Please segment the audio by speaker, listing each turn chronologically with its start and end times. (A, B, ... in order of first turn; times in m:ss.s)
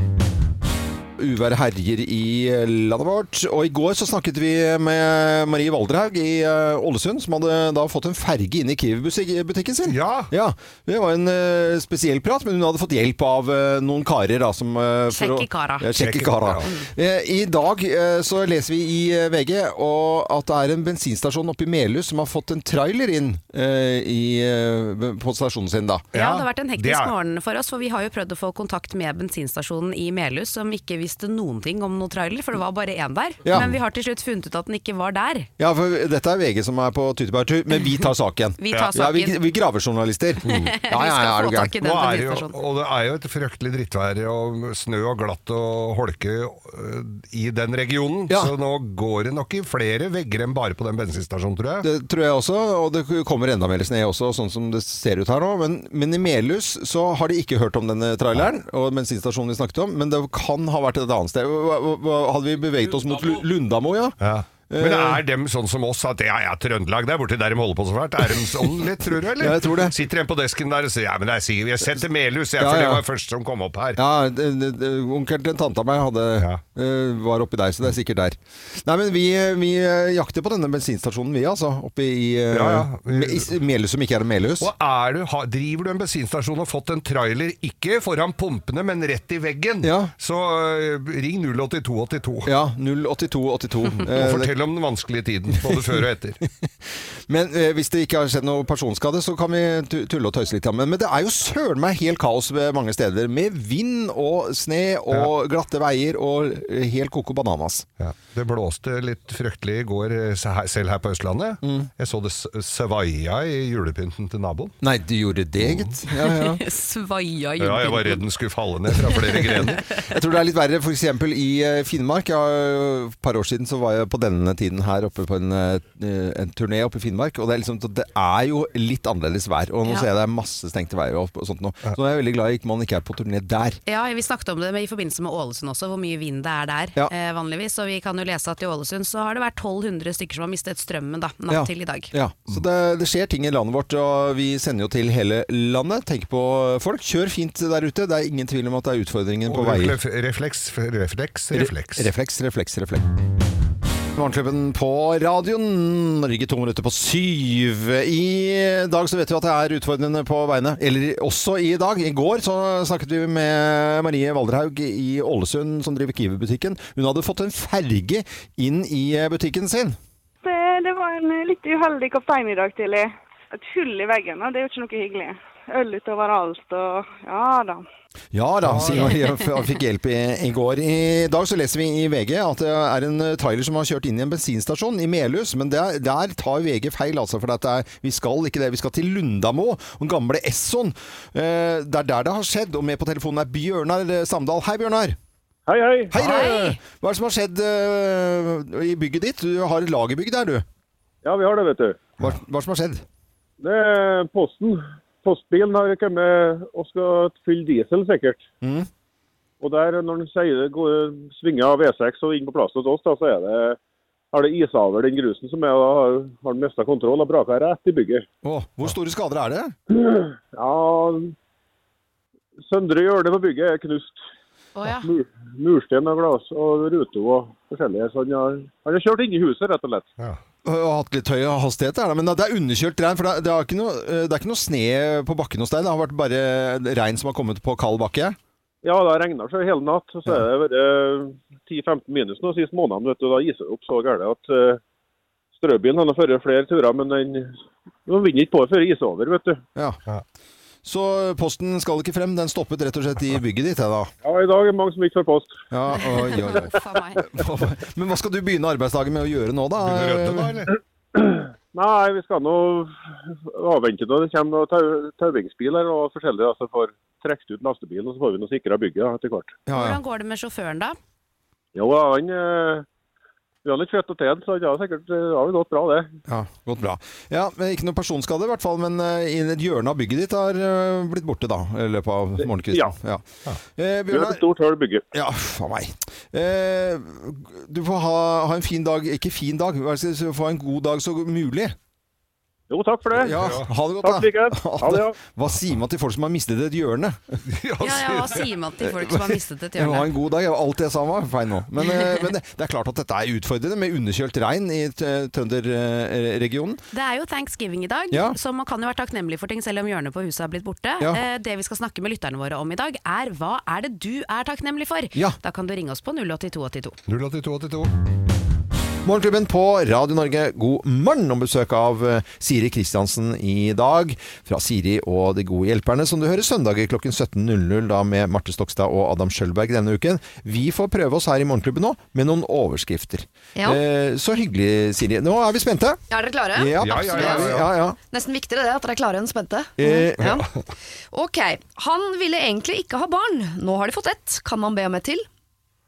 0:01.2-0:26.0 A
0:09.8-0:10.3 B
0:15.1-0:15.9 C
0:16.0-0:16.7 B
0:26.1-0:27.1 B
0:26.1-0:35.5 C
0:33.4-0:33.8 A
0:35.6-0:41.7 A
0:38.6-0:39.3 C
0:40.4-0:40.7 B
0:40.4-0:42.6 C
0:41.8-0:51.9 B
0:51.8-1:04.2 A
1:04.2-1:14.0 B
1:04.7-1:05.2 A
1:09.4-1:09.9 A
1:12.6-1:13.0 A
1:14.0-1:24.7 A
1:22.5-1:23.5 B
1:24.6-1:32.5 B
1:29.8-1:30.1 A
1:32.4-1:34.5 A
1:34.0-1:36.4 B
1:37.3-1:47.8 A
1:48.0-1:54.8 B
1:51.6-1:51.9 A
1:54.8-1:56.6 A
1:55.6-1:56.0 B
1:56.2-1:58.2 C
1:57.6-1:59.8 B
1:59.0-1:59.8 C
2:00.0-2:13.8 A
2:13.8-2:22.1 C
2:21.5-2:30.0 A
2:29.5-2:32.1 B
2:31.5-2:33.0 A
2:34.2-2:50.0 A
2:50.4-2:57.8 D
2:58.3-3:15.2 A
2:58.6-2:59.2 B
3:15.7-3:16.1 E
3:16.1-3:20.6 A
3:16.1-3:16.8 C
3:21.2-3:22.0 E
3:22.2-3:23.0 A
3:23.6-3:28.4 E
3:28.6-3:28.9 A
3:29.6-3:33.8 E
3:34.3-3:38.2 E
3:38.4-3:39.7 A
3:39.9-3:41.3 E
3:42.6-3:44.2 E
3:44.8-3:45.1 C
3:45.0-3:50.1 E
3:50.6-3:58.4 A
3:58.8-4:04.8 E
4:05.5-4:09.6 E
4:09.7-4:10.0 A
4:10.8-4:14.1 A
4:14.2-4:15.5 E
4:15.7-4:20.6 A
4:16.2-4:17.2 C
4:19.8-4:20.7 B
4:21.2-4:22.9 E
4:23.5-4:29.6 E
4:29.7-4:30.0 A
4:29.7-4:31.0 C
4:31.7-4:32.8 E
4:33.6-4:36.1 E
4:36.3-4:43.2 A
4:42.7-4:43.0 E
4:43.8-4:44.4 A
4:44.1-4:45.0 E
4:45.1-4:51.7 A
4:52.7-4:53.4 E
4:53.2-4:57.4 A
4:53.4-4:53.7 B
4:54.0-4:55.2 E
4:57.5-4:58.5 B
4:57.8-5:00.1 C
4:58.8-4:59.2 A
4:59.8-5:06.8 A
5:06.9-5:17.0 C
5:08.1-5:08.4 A
5:17.1-5:17.9 B
5:19.0-5:36.0 A
5:36.1-5:40.5 F
5:36.5-5:38.0 A
5:36.8-5:37.7 B
5:39.8-5:40.3 A
5:40.2-5:40.4 B
5:41.1-5:45.2 F